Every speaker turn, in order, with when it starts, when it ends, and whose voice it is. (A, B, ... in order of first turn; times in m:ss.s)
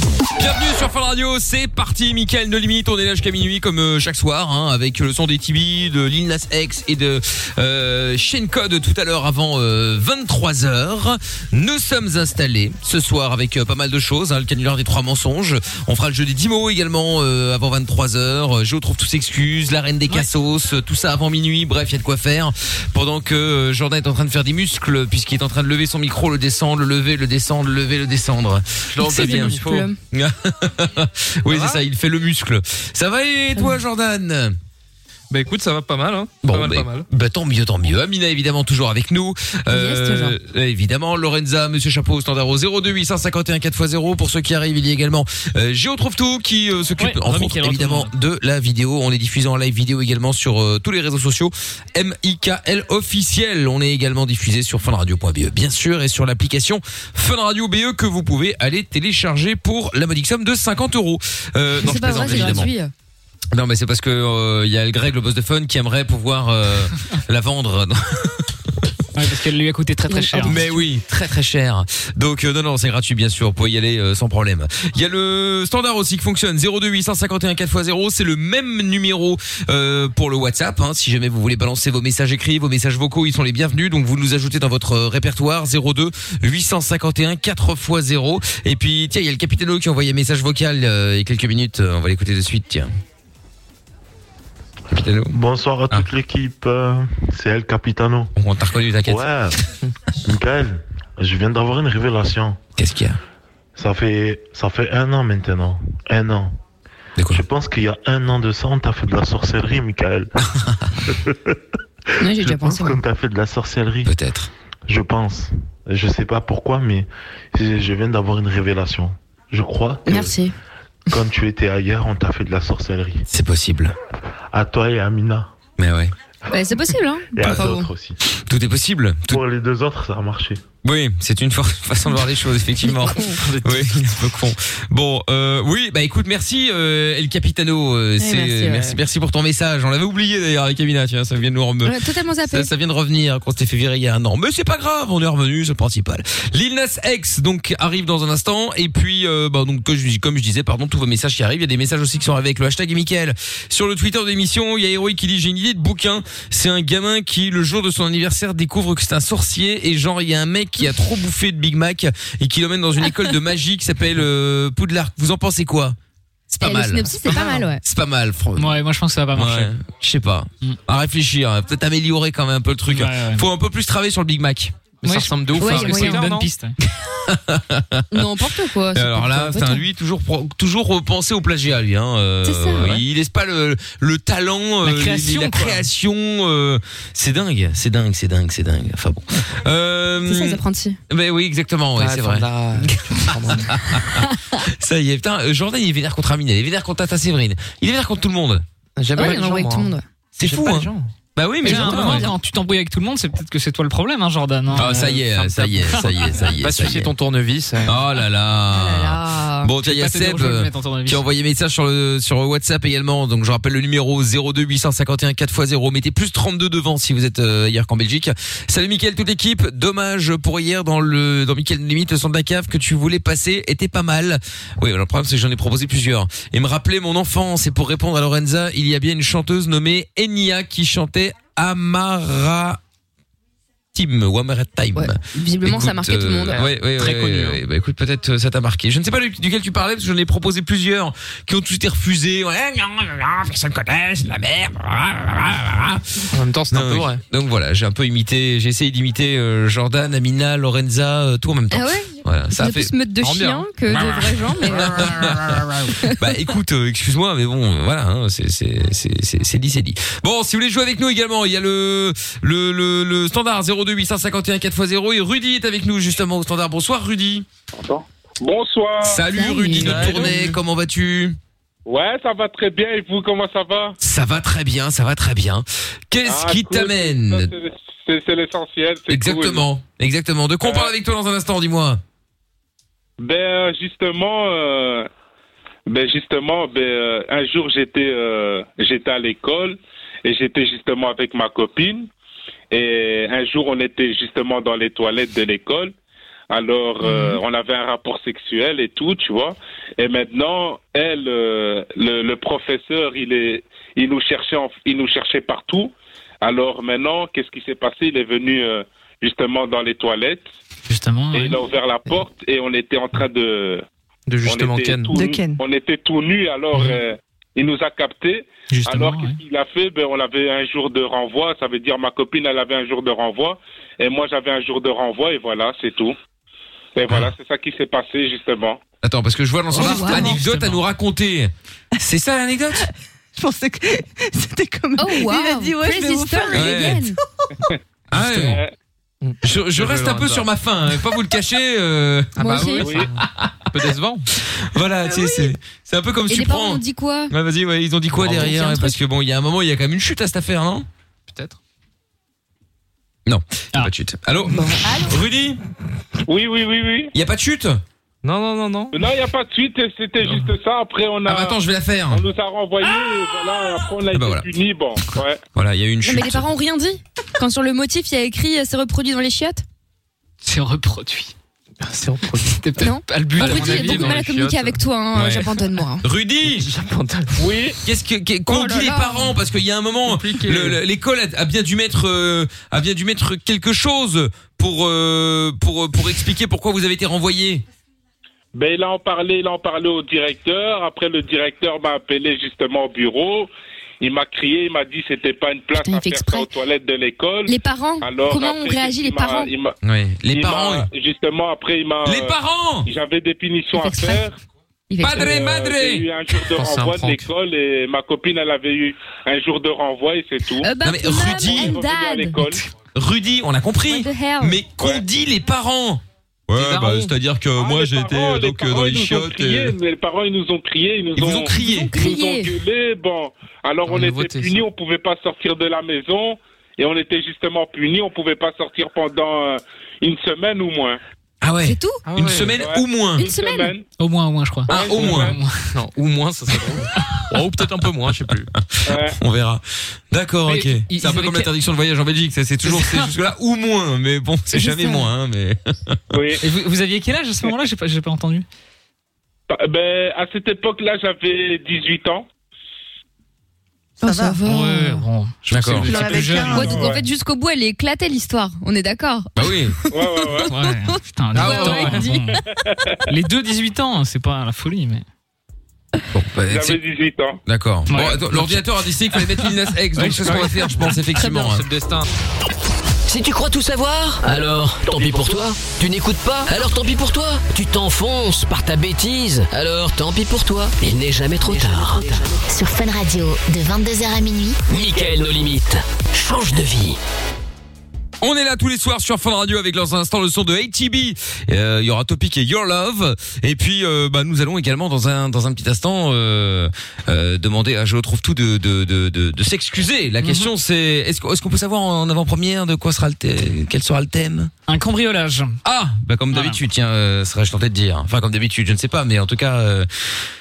0:00.4-0:29.6 A
0:28.9-0:29.9 B
0:29.0-0:30.0 C
0:30.1-0:34.6 A
0:31.5-0:31.8 B
0:35.3-0:37.0 B
0:36.4-1:02.7 A
0:39.7-0:40.4 C
0:47.0-0:48.1 D
1:01.8-1:02.9 C
1:01.9-1:02.7 B
1:03.5-1:08.6 A
1:09.1-1:10.7 D
1:10.1-1:10.8 C
1:10.4-1:32.9 A
1:34.9-1:35.4 A
1:35.3-1:38.3 E
1:38.4-1:39.3 A
1:39.0-1:39.6 E
1:40.2-1:42.6 E
1:42.8-1:43.2 A
1:43.8-1:46.5 E
1:47.2-1:47.4 A
1:47.3-1:50.3 E
1:50.4-1:50.9 A
1:51.0-1:51.6 E
1:52.2-1:53.0 C
1:52.2-1:54.1 E
1:54.0-1:54.5 A
1:54.9-2:00.4 E
2:00.0-2:00.5 C
2:01.1-2:03.2 E
2:03.3-2:03.9 A
2:04.5-2:05.5 E
2:05.8-2:06.1 A
2:06.5-2:07.9 C
2:07.3-2:08.2 E
2:08.3-2:09.4 A
2:09.3-2:10.6 E
2:10.8-2:46.0 A
2:12.8-2:13.4 C
2:13.4-2:14.1 B
2:18.2-2:19.0 C
2:21.8-2:22.7 C
2:46.5-2:48.8 A
2:46.6-2:47.8 C
2:48.6-2:49.7 D
2:49.3-2:54.9 A
2:52.9-2:53.5 D
2:55.0-2:56.5 B
2:55.0-2:56.7 D
2:55.6-2:56.3 C
2:56.9-2:58.3 A
2:58.1-2:59.8 C
2:58.9-3:12.8 A
3:02.4-3:02.9 C
3:04.8-3:05.9 D
3:10.2-3:11.0 C
3:12.0-3:13.7 B
3:13.4-3:18.6 A
3:19.0-3:19.9 B
3:19.1-3:20.0 C
3:20.4-3:22.3 A
3:20.4-3:21.1 B
3:21.6-3:22.3 C
3:21.6-3:25.2 D
3:24.7-3:27.1 A
3:24.8-3:28.0 B
3:27.8-3:52.8 A
3:28.7-3:29.7 C
3:29.8-3:31.2 D
3:53.9-4:12.9 A
3:55.0-3:56.6 C
3:56.5-3:57.6 B
4:06.3-4:07.2 B
4:11.7-4:16.2 C
4:13.2-4:14.1 B
4:13.9-4:27.5 A
4:14.8-4:15.6 B
4:28.4-4:29.2 F
4:29.0-4:31.4 A
4:29.3-4:30.3 C
4:29.8-4:30.6 B
4:31.8-4:34.0 F
4:34.0-4:37.5 A
4:36.2-4:39.6 F
4:39.1-4:42.0 A
4:40.6-4:40.9 F
4:43.2-4:45.1 F
4:45.9-4:52.1 F
4:52.7-4:55.9 F
4:56.5-5:10.5 F
4:57.0-4:57.3 C
5:10.9-5:11.6 D
5:11.3-5:13.8 F
5:14.3-5:15.1 B
5:14.4-5:26.1 F
5:15.1-5:15.6 G
5:16.7-5:17.0 D
5:18.7-5:19.4 D
5:27.0-5:28.8 F
5:29.0-5:32.9 A
5:29.7-5:30.4 C
5:29.8-5:30.4 G
5:30.4-5:30.8 D
5:32.8-5:37.5 G
5:35.0-5:37.2 C
5:36.5-5:37.0 A
5:38.1-5:38.6 A
5:38.3-5:38.7 F
5:39.2-5:40.4 B
5:39.4-5:43.5 A
5:42.4-5:42.9 C
5:42.4-5:44.3 B
5:42.8-5:43.1 F
5:44.4-5:50.9 A
5:45.1-5:45.5 G
5:46.3-5:47.3 C
5:48.2-5:49.0 C
5:51.3-5:51.6 B
5:53.3-5:55.6 A
5:54.6-5:55.2 G
5:56.3-5:57.1 F
5:57.1-5:57.8 A
5:58.2-5:58.9 B
5:58.9-6:01.6 F
6:01.2-6:02.2 A
6:02.1-6:05.4 F
6:04.1-6:04.5 A
6:05.5-6:06.4 A
6:06.0-6:09.6 C
6:10.4-6:11.3 D
6:11.8-6:12.6 B
6:12.4-6:14.2 D
6:12.8-6:16.0 C
6:13.4-6:14.8 B
6:15.1-6:15.4 A
6:16.0-6:16.7 A
6:16.4-6:17.8 B
6:17.8-6:27.6 A
6:18.5-6:19.3 C
6:20.1-6:20.8 B
6:28.5-6:33.5 F
6:34.0-6:39.7 F
6:35.8-6:36.5 C
6:37.5-6:39.5 C
6:39.8-6:40.9 A
6:40.3-6:44.4 F
6:42.0-6:42.9 A
6:43.8-6:44.2 C
6:44.9-6:45.4 C
6:45.0-6:46.1 A
6:45.1-6:50.7 F
6:46.5-6:47.2 B
6:50.6-6:52.6 C
6:50.8-6:51.8 A
6:51.3-6:52.6 F
6:52.9-6:59.7 A
6:53.8-6:54.6 C
6:56.6-6:57.1 B
6:57.5-7:11.0 F
7:01.2-7:01.9 A
7:01.5-7:02.5 C
7:03.9-7:04.6 B
7:11.4-7:13.2 A
7:11.6-7:12.0 C
7:12.0-7:12.6 B
7:12.6-7:13.8 F
7:13.2-7:13.7 C
7:14.0-7:15.7 D
7:14.7-7:15.3 A
7:14.7-7:15.4 F
7:15.7-7:18.5 B
7:18.8-7:26.0 A
7:18.8-7:19.2 F
7:20.4-7:21.5 D
7:22.6-7:23.1 D
7:24.5-7:25.1 C
7:26.1-7:26.4 F
7:26.4-7:28.4 D
7:29.5-7:32.2 F
7:34.0-7:35.0 C
7:34.0-7:34.4 G
7:34.4-7:36.8 D
7:35.5-7:35.9 A
7:35.8-7:36.8 G
7:35.9-7:40.0 C
7:36.7-7:37.0 F
7:39.4-7:39.8 A
7:39.9-7:40.5 F
7:40.5-7:42.4 D
7:41.4-7:41.7 A
7:41.4-7:42.2 C
7:42.6-7:43.0 F
7:43.1-7:45.0 D
7:46.1-7:46.8 A
7:46.5-7:47.4 F
7:47.4-7:51.6 A
7:47.9-7:50.9 D
7:51.2-7:52.0 B
7:53.0-8:02.4 H
8:02.5-8:04.6 I
8:04.7-8:07.0 H
8:08.2-8:24.5 A
8:20.2-8:20.5 D
8:24.6-8:25.6 D
8:25.6-8:30.2 A
8:26.3-8:26.6 D